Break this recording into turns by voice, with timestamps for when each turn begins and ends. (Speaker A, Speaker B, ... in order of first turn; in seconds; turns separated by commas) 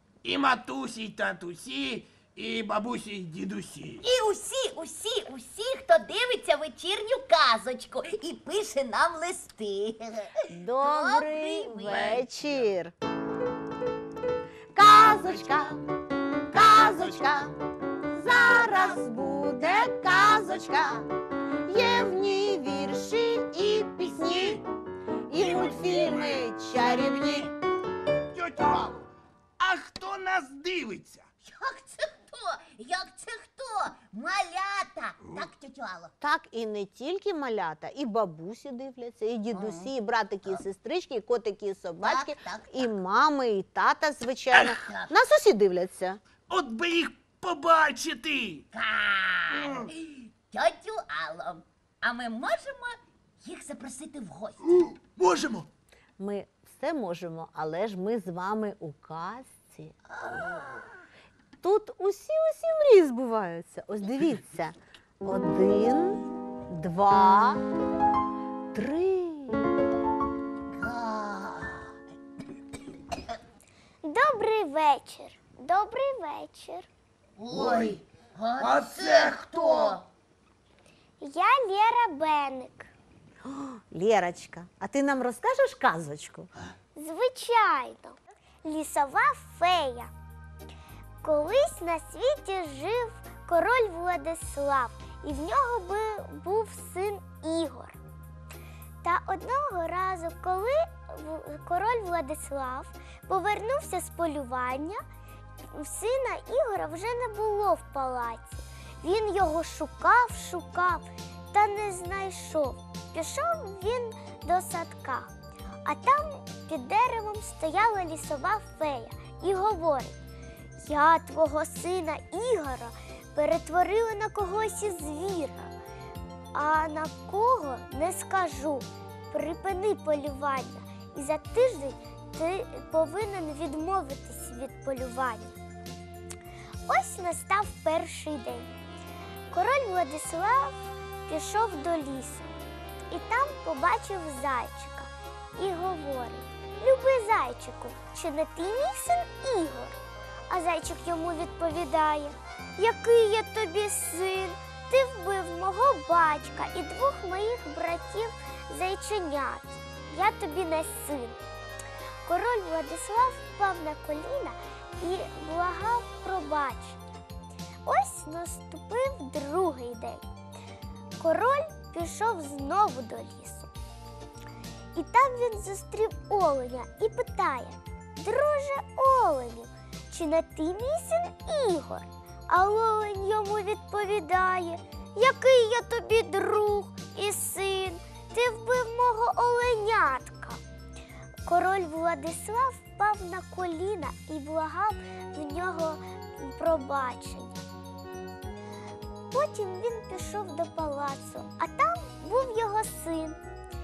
Speaker A: 0.2-4.0, Speaker B: 4.0-12.2, Speaker C: 10.5-12.9, Speaker A: 11.9-12.7, Speaker C: 14.7-15.8, Speaker A: 15.1-15.7, Speaker C: 16.5-17.6, Speaker A: 16.7-17.3, Speaker C: 18.1-21.1, Speaker C: 21.7-24.6, Speaker A: 23.9-24.6, Speaker C: 25.3-27.5, Speaker A: 25.3-26.5, Speaker A: 28.3-29.1, Speaker A: 29.6-31.3, Speaker B: 31.4-36.1, Speaker C: 36.2-46.2, Speaker B: 39.5-39.9, Speaker B: 42.0-42.9, Speaker A: 44.5-44.8, Speaker B: 44.8-45.1, Speaker A: 46.5-48.6, Speaker B: 48.7-55.0, Speaker A: 49.5-49.9, Speaker A: 54.7-55.7, Speaker C: 56.2-59.9, Speaker B: 60.1-60.8, Speaker C: 61.6-67.6, Speaker C: 68.7-69.7, Speaker B: 70.8-71.9, Speaker D: 74.0-76.9, Speaker B: 77.4-80.0, Speaker A: 77.5-78.0, Speaker A: 78.6-80.0, Speaker D: 81.2-82.9, Speaker C: 83.5-86.5, Speaker D: 87.0-90.1, Speaker D: 91.2-98.0, Speaker D: 99.0-105.0, Speaker D: 105.7-115.3, Speaker D: 115.8-120.2, Speaker D: 120.8-125.8, Speaker D: 126.5-135.6, Speaker D: 136.9-138.8, Speaker D: 139.5-142.5, Speaker D: 143.1-150.0, Speaker D: 150.5-161.4, Speaker D: 162.2-167.0, Speaker D: 167.8-170.2, Speaker D: 171.2-173.7, Speaker D: 174.9-190.6, Speaker D: 191.4-197.6, Speaker D: 199.3-203.4